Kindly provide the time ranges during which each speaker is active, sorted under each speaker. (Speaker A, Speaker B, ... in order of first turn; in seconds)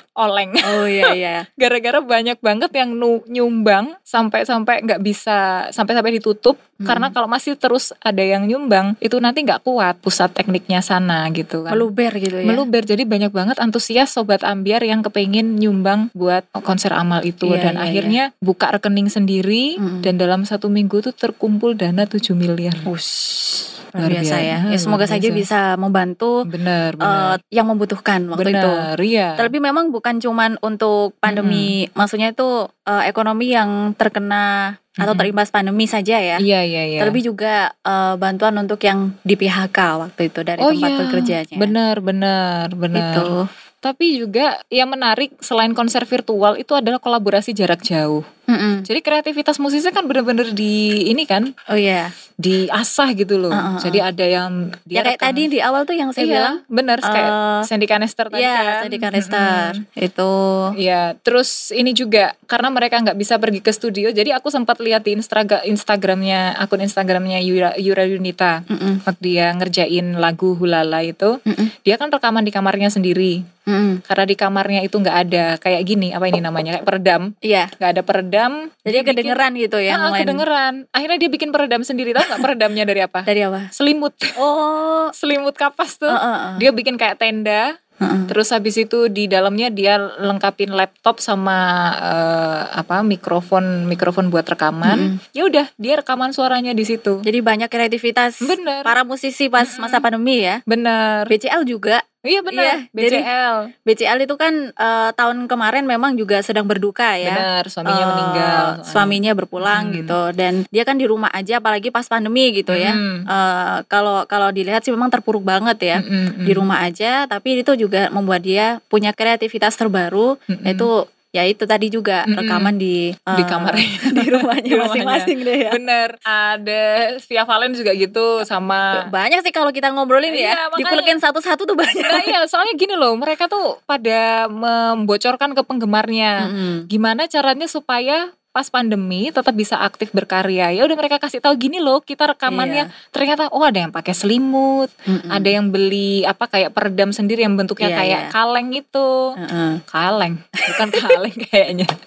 Speaker A: 0.2-11.9, 12.4-22.9, 24.0-25.4, 26.4-27.4, 28.3-29.5, 31.3-31.7, 35.0-35.3, 36.4-37.2, 40.6-43.3, 43.8-48.2, 48.9-51.5, 52.4-55.5, 56.2-59.8, 60.7-73.5, 74.1-79.4, 79.9-84.4, 85.1-87.7, 88.3-97.2, 98.4-98.9, 99.6-100.0, 100.7-101.3, 102.2-103.7, 107.2-110.2, 112.7-113.3, 116.0-116.6, 120.5-120.9, 122.3-122.7, 123.3-129.0, 130.3-131.2, 132.0-149.3, 149.9-151.9
Speaker B: 0.6-1.4, 6.8-7.1, 11.7-12.6, 17.4-18.2, 19.8-20.1, 22.9-26.4, 27.0-28.8, 29.4-36.4, 37.0-41.7, 42.9-43.5, 48.5-48.9, 51.7-52.1, 53.5-54.0, 54.9-57.7, 58.3-60.7, 68.7-69.0, 73.7-74.0, 77.4-77.7, 78.8-80.4, 82.2-82.5, 83.3-83.7, 84.4-85.1, 86.1-86.6, 88.0-88.3, 94.8-95.2, 97.2-100.6, 101.3-103.3, 103.8-125.8, 128.9-132.3, 136.4-136.9, 142.5-142.9, 145.1-145.5, 147.8-148.3, 149.4-149.8, 150.6-151.2